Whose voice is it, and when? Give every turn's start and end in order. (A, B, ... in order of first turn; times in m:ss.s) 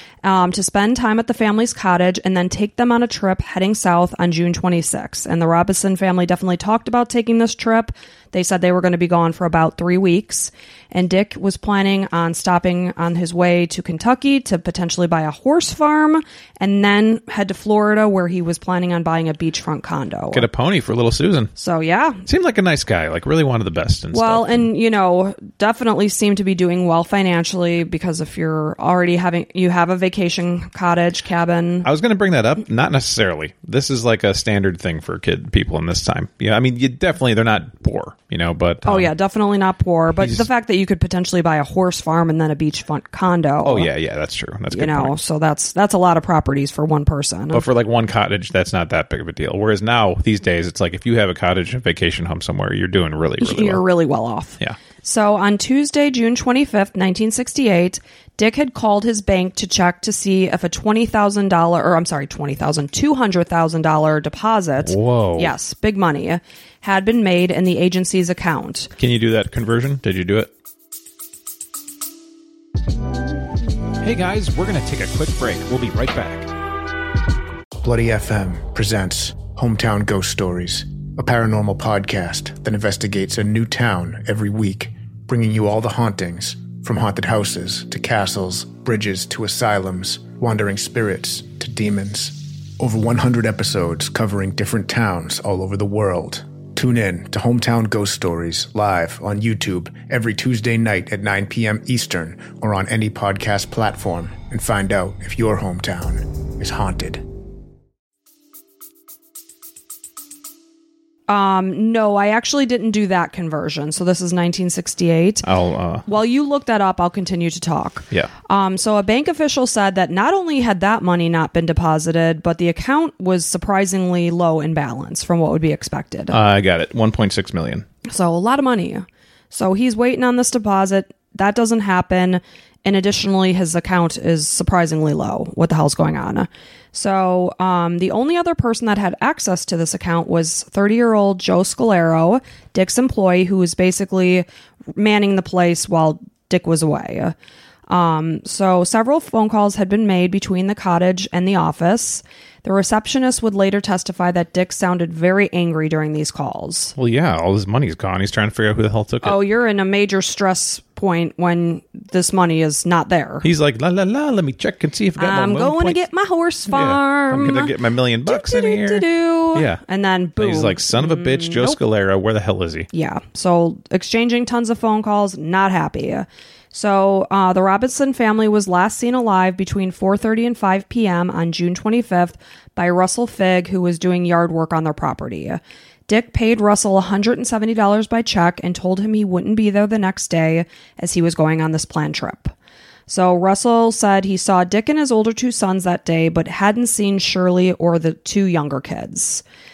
0:00.2-0:20.5 A
0:20.3-0:21.5 B
0:21.6-0:22.2 A
0:22.2-0:24.6 B
0:24.1-0:31.9 A
0:31.8-0:39.1 B
0:38.8-0:43.9 A
0:40.2-0:40.4 B
0:43.6-0:45.1 B
0:44.7-0:47.6 A
0:47.5-0:53.8 B
0:53.4-1:08.9 A
1:04.8-1:05.5 B
1:09.0-1:10.5 B
1:14.0-1:16.5 B
1:17.8-1:47.2 C
1:51.3-1:55.5 A
1:55.4-1:56.0 B
1:56.0-2:06.4 A
2:06.3-2:07.8 B
2:08.0-2:27.3 A
2:27.9-2:36.9 A
2:37.0-2:39.4 B
2:39.2-2:43.4 A
2:43.4-2:46.0 B
2:45.2-2:51.8 A
2:46.7-2:49.8 B
2:50.4-2:52.9 B
2:52.9-3:12.5 A
3:13.1-3:19.4 A